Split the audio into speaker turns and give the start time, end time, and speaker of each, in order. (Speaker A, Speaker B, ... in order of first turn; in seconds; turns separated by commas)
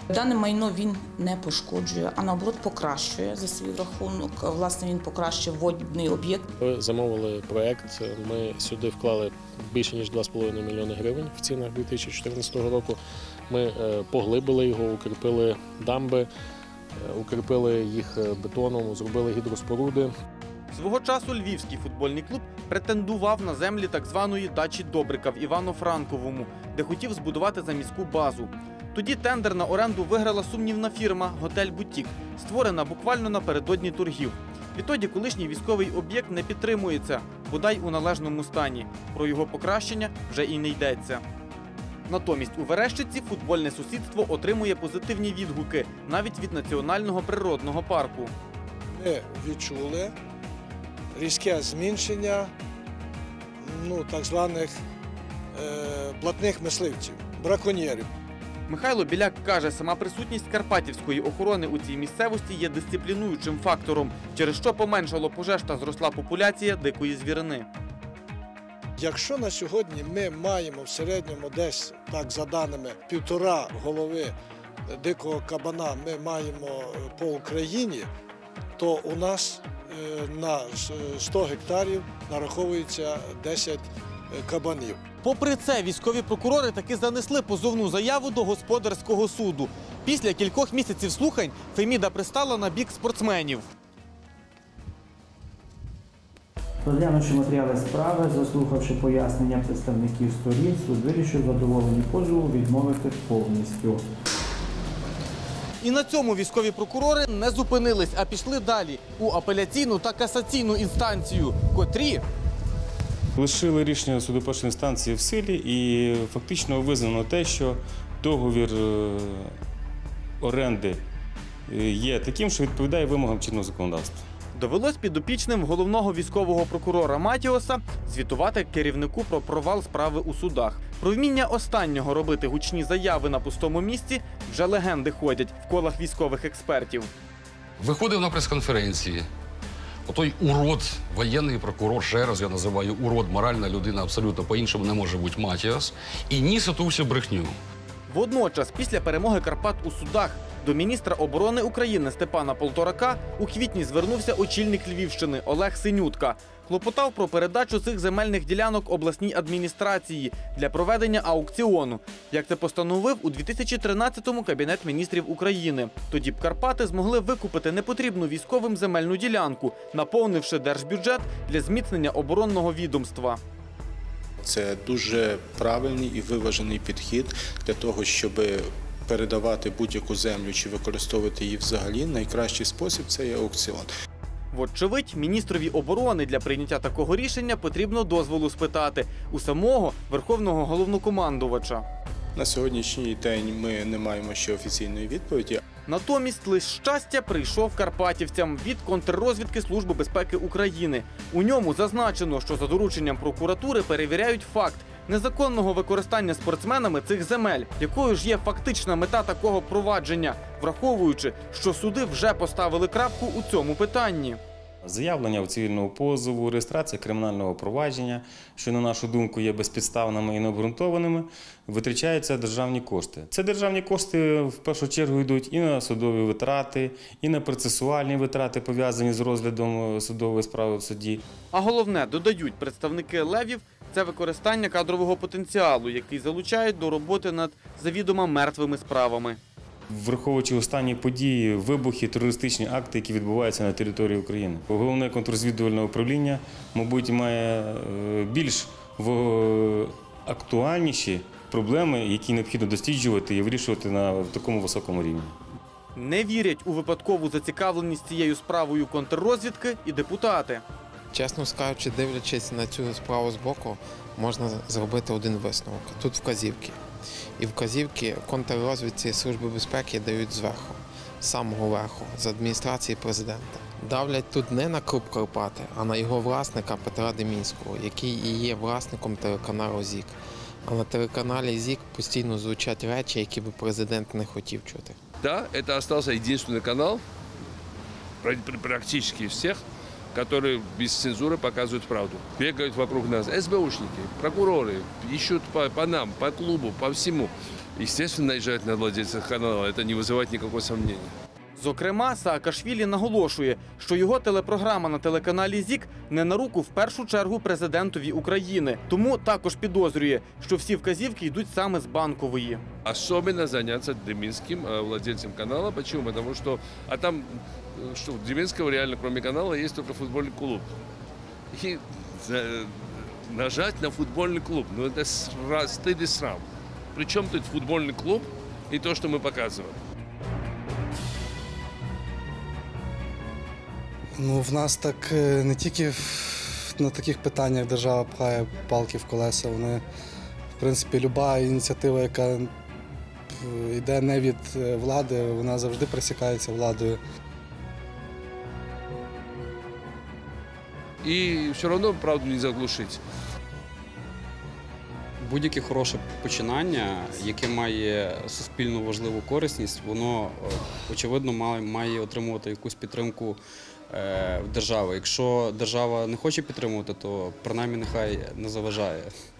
Speaker A: 0.1-6.5, Speaker B: 6.6-16.3, Speaker B: 17.0-20.1, Speaker C: 20.7-41.2, Speaker C: 42.1-48.3, Speaker D: 48.9-50.1, Speaker D: 51.1-52.5, Speaker D: 53.6-54.7, Speaker D: 55.5-58.1, Speaker C: 58.7-67.7, Speaker D: 69.0-74.3, Speaker D: 74.9-78.1, Speaker D: 78.8-85.0, Speaker C: 85.2-93.7, Speaker E: 96.8-104.0, Speaker C: 105.8-112.2, Speaker F: 113.4-119.5, Speaker F: 120.4-121.0, Speaker F: 121.7-124.2, Speaker C: 124.5-137.1, Speaker G: 137.8-139.3, Speaker G: 140.1-147.6, Speaker C: 148.1-173.4, Speaker H: 174.4-183.9, Speaker C: 184.5-191.9, Speaker H: 192.4-195.6, Speaker C: 195.9-214.4, Speaker F: 214.8-231.2, Speaker C: 231.5-239.4, Speaker F: 239.9-255.3, Speaker C: 255.9-260.6, Speaker I: 261.1-266.8, Speaker I: 267.4-285.0, Speaker J: 285.2-287.0, Speaker J: 288.2-289.6, Speaker J: 290.1-301.1, Speaker C: 301.6-312.6, Speaker J: 312.9-320.7, Speaker J: 321.5-329.8, Speaker K: 334.2-339.8, Speaker K: 340.6-342.5, Speaker K: 343.5-347.0, Speaker J: 351.0-353.0, Speaker L: 355.2-369.1